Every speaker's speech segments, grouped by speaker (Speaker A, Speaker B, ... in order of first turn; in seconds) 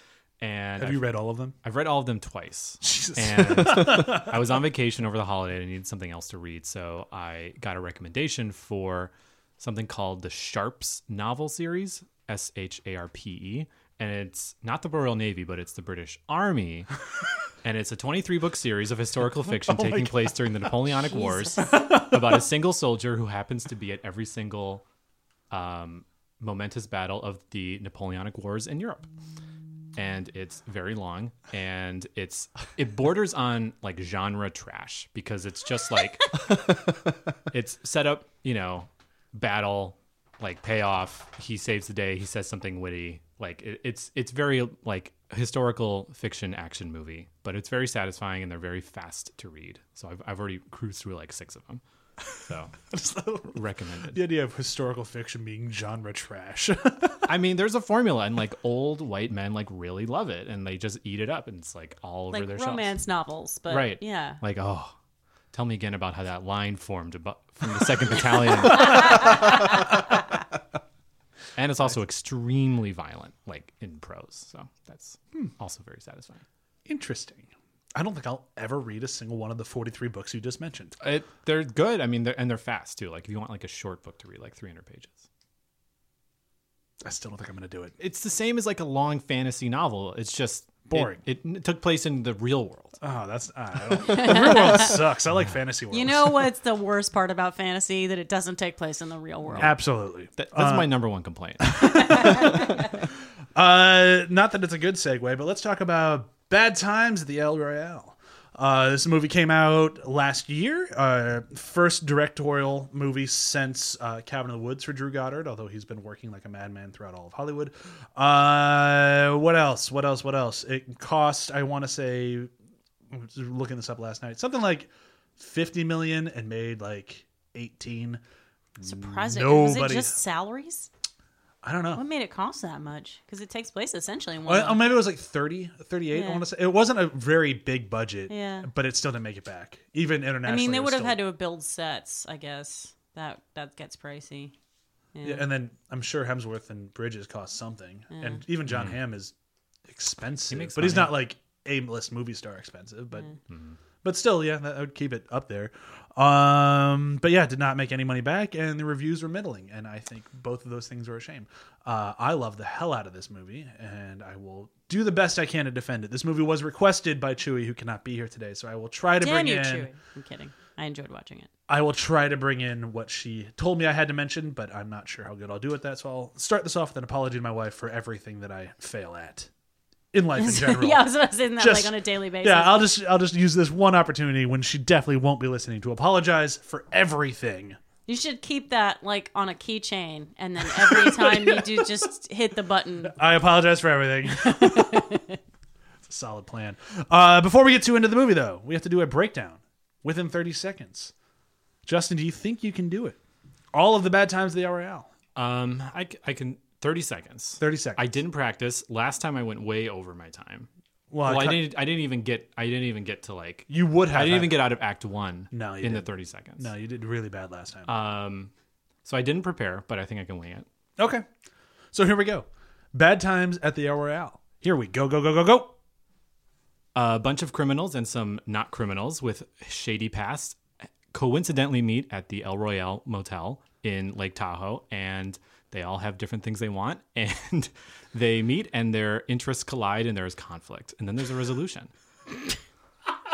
Speaker A: 0.4-1.0, 1.6-16.9, 17.6-24.8, 25.5-29.1, 29.9-36.9, 37.5-52.9, 53.5-54.1, 57.2-62.9, 63.7-64.9, 65.5-69.8, 71.5-76.4, 81.0-85.2, 88.0-93.0, 100.3-102.5, 148.7-148.9, 150.5-151.1, 153.5-153.8, 205.3-210.7, 211.2-216.7, 217.8-218.5, 219.0-220.7, 226.9-241.9
Speaker B: 0.8-1.5, 2.8-4.3, 19.7-20.1, 52.9-57.3, 76.9-80.9, 87.0-87.9, 90.9-91.2, 93.0-96.5, 99.6-100.9, 101.7-102.8, 103.5-122.5, 123.1-128.2, 128.8-130.1, 131.6-132.0, 134.4-141.2, 145.2-149.3, 149.9-153.3, 154.0-169.9, 171.7-179.5, 180.1-187.8, 190.7-191.9, 193.0-195.1, 196.1-201.1, 201.8-203.2, 203.7-205.1, 207.6-208.0, 211.1-211.6, 213.7-214.7, 215.5-217.9, 221.0-221.2, 221.9-225.8
Speaker C: 21.1-21.7, 62.3-64.4, 94.1-94.9, 95.9-99.7, 102.0-102.7, 128.8-130.9, 131.9-134.8, 136.1-136.4, 138.3-138.7, 140.4-144.5, 145.1-145.4, 148.1-148.4, 169.2-171.5, 180.4-182.9, 188.1-193.2, 194.3-195.3